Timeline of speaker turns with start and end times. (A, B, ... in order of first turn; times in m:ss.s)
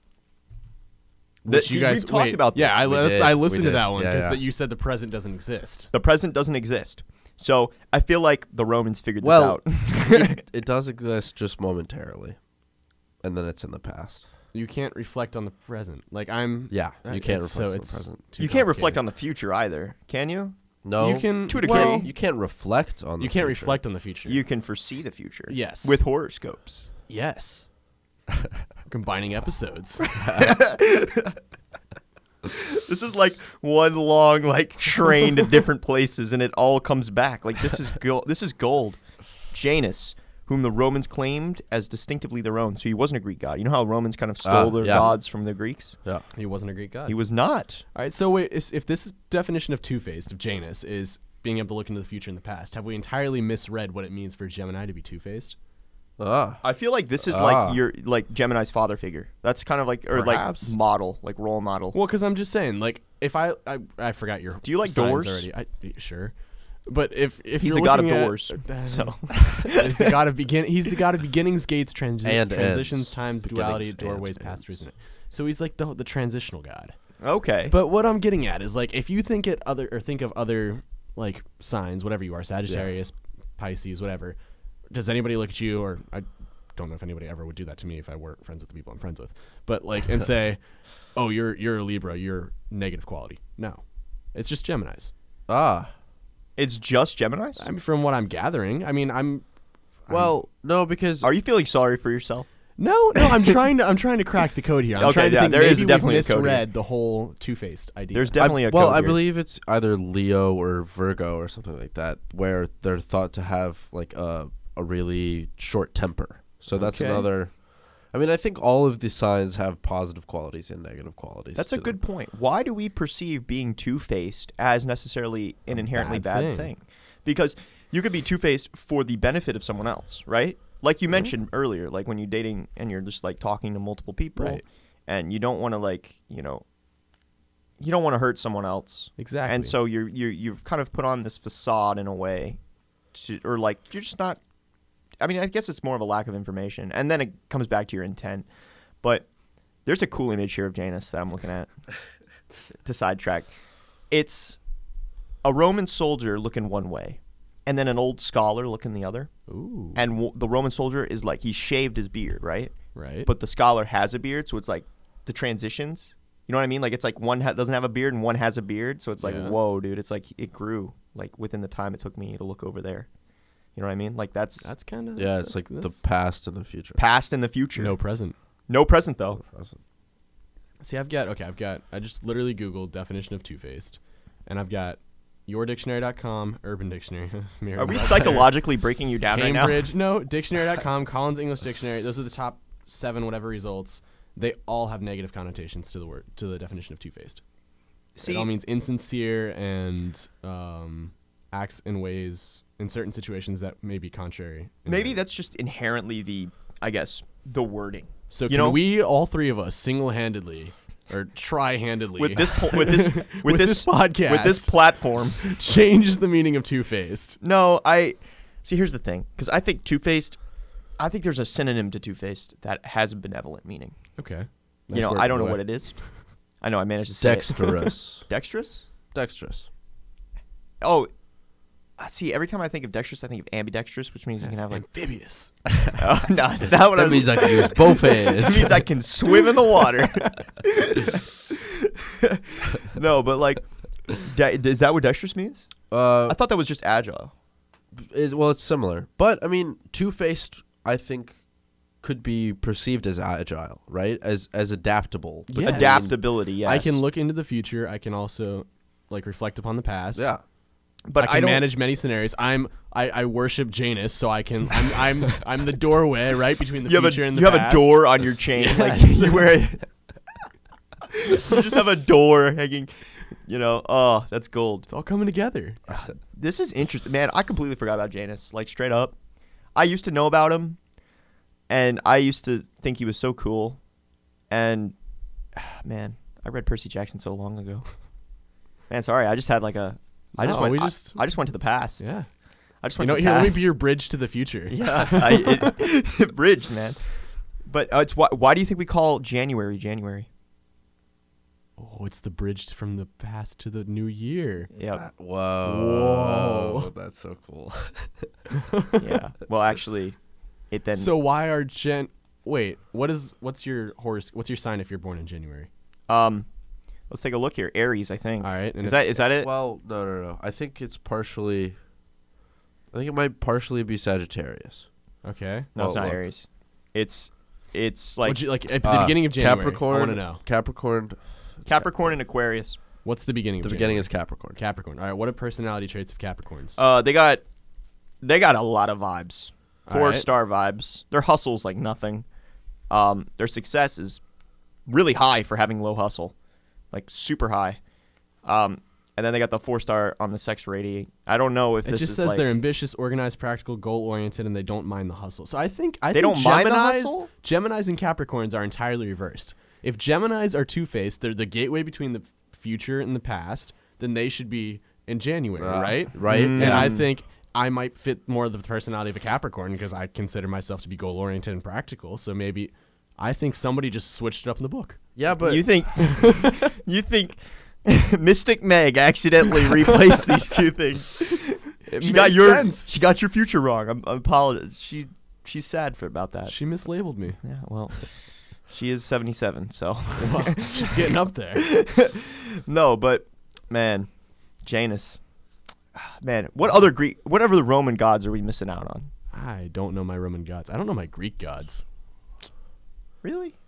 0:01.4-0:05.9 A
0:01.5-0:03.0 B
0:02.9-0:04.4 C
0:05.9-0:10.4 B
0:09.2-0:12.4 C
0:13.2-0:14.3 C
0:14.5-0:19.0 A
0:16.7-0:18.2 C
0:18.4-0:20.6 B
0:20.8-0:23.8 C
0:21.0-0:22.1 A
0:21.5-0:22.1 B
0:23.2-0:24.4 A
0:24.3-0:26.9 B
0:25.5-0:26.0 A
0:27.1-0:27.7 A
0:28.9-0:30.2 A
0:30.2-0:31.4 B
0:32.4-0:39.0 B
0:39.5-0:46.0 B
0:44.4-0:45.2 C
0:46.4-0:47.2 A
0:47.1-0:47.8 B
0:47.9-0:55.6 A
0:56.2-0:56.6 C
0:56.6-1:02.0 B
0:57.2-0:57.8 C
1:00.1-1:00.8 A
1:01.9-1:17.0 A
1:04.6-1:05.5 B
1:07.6-1:10.1 B
1:12.2-1:14.8 C
1:17.2-1:17.7 B
1:17.7-1:24.4 A
1:24.9-1:33.8 A
1:34.3-1:35.1 A
1:35.5-1:35.9 C
1:36.6-1:37.7 B
1:37.6-1:39.4 A
1:40.1-1:41.3 C
1:41.2-1:42.5 B
1:42.8-1:48.5 A
1:45.0-1:46.6 B
1:48.1-1:49.2 B
1:48.4-2:02.0 C
1:56.7-1:57.3 A
2:01.6-2:16.6 B
2:05.8-2:06.7 A
2:14.4-2:14.6 A
2:17.8-2:22.6 B
2:19.2-2:19.8 A
2:23.1-2:24.4 B
2:25.2-2:28.5 B
2:29.8-2:31.7 B
2:32.8-2:33.5 B
2:34.1-2:34.6 B
2:35.4-2:39.3 B
2:39.5-2:40.0 A
2:40.0-2:53.1 B
2:43.0-2:43.3 A
2:49.2-2:49.6 A
2:53.8-2:54.7 B
2:54.6-2:56.0 A
2:55.2-2:57.0 C
2:57.0-2:58.0 B
2:57.8-2:58.4 A
2:58.7-2:59.4 B
2:59.4-2:59.8 C
3:00.8-3:08.6 A
3:07.8-3:09.9 B
3:09.3-3:17.4 A
3:18.2-3:18.5 B
3:18.2-3:25.2 A
3:24.9-3:28.8 B
3:28.3-3:37.4 A
3:32.2-3:35.5 B
3:37.4-3:40.4 B
3:41.0-3:44.0 B
3:44.2-3:46.2 A
3:44.9-3:46.0 B
3:46.6-3:48.8 B
3:47.2-3:48.3 C
3:49.1-3:49.7 C
3:50.8-3:51.1 B
3:52.0-3:54.9 B
3:54.4-3:55.5 A
3:56.0-4:05.7 B
3:56.6-3:58.9 C
4:05.9-4:06.4 C
4:06.3-4:07.3 B
4:07.9-4:11.4 C
4:12.0-4:16.1 C
4:15.5-4:20.3 A
4:15.6-4:17.0 B
4:20.2-4:20.4 C
4:21.1-4:21.7 B
4:21.2-4:29.7 A
4:26.9-4:29.8 B
4:31.1-4:34.9 B
4:34.9-4:35.8 A
4:35.9-4:39.2 B
4:39.8-4:40.8 B
4:41.7-4:43.8 B
4:44.5-4:45.0 B
4:45.6-4:47.9 B
4:48.9-4:52.0 B
4:50.4-4:51.3 A
4:52.0-4:52.3 A
4:52.8-4:53.7 B
4:53.0-4:55.6 A
4:54.7-5:00.3 B
5:01.8-5:04.7 A
5:04.8-5:05.0 B
5:04.9-5:08.3 C
5:05.6-5:06.9 A
5:08.7-5:09.0 A
5:09.0-5:10.2 B
5:10.7-5:11.1 B
5:10.9-5:15.7 A
5:16.1-5:16.5 B
5:17.1-5:19.5 B
5:18.4-5:19.2 A
5:19.4-5:21.8 C
5:22.9-5:24.9 C
5:25.2-5:25.7 A
5:25.8-5:28.4 B
5:25.8-5:26.2 C
5:28.2-5:30.4 A
5:28.8-5:31.9 C
5:31.6-5:32.8 B
5:33.0-5:36.8 A
5:33.6-5:34.6 C
5:36.8-5:37.4 B
5:38.2-5:42.3 B
5:39.9-5:40.3 A
5:42.9-5:44.2 B
5:44.9-5:46.3 B
5:46.9-5:47.8 B
5:48.4-5:52.5 B
5:51.8-6:15.0 A
5:56.1-5:57.3 B
6:05.6-6:07.0 C
6:06.3-6:07.1 B
6:15.2-6:15.7 C
6:15.4-6:26.6 B
6:16.2-6:16.6 A
6:21.8-6:22.9 A
6:26.5-6:27.4 A
6:27.4-6:34.1 B
6:30.2-6:31.7 A
6:34.6-6:35.2 B
6:36.0-6:39.1 B
6:39.3-6:41.8 A
6:43.2-6:43.6 B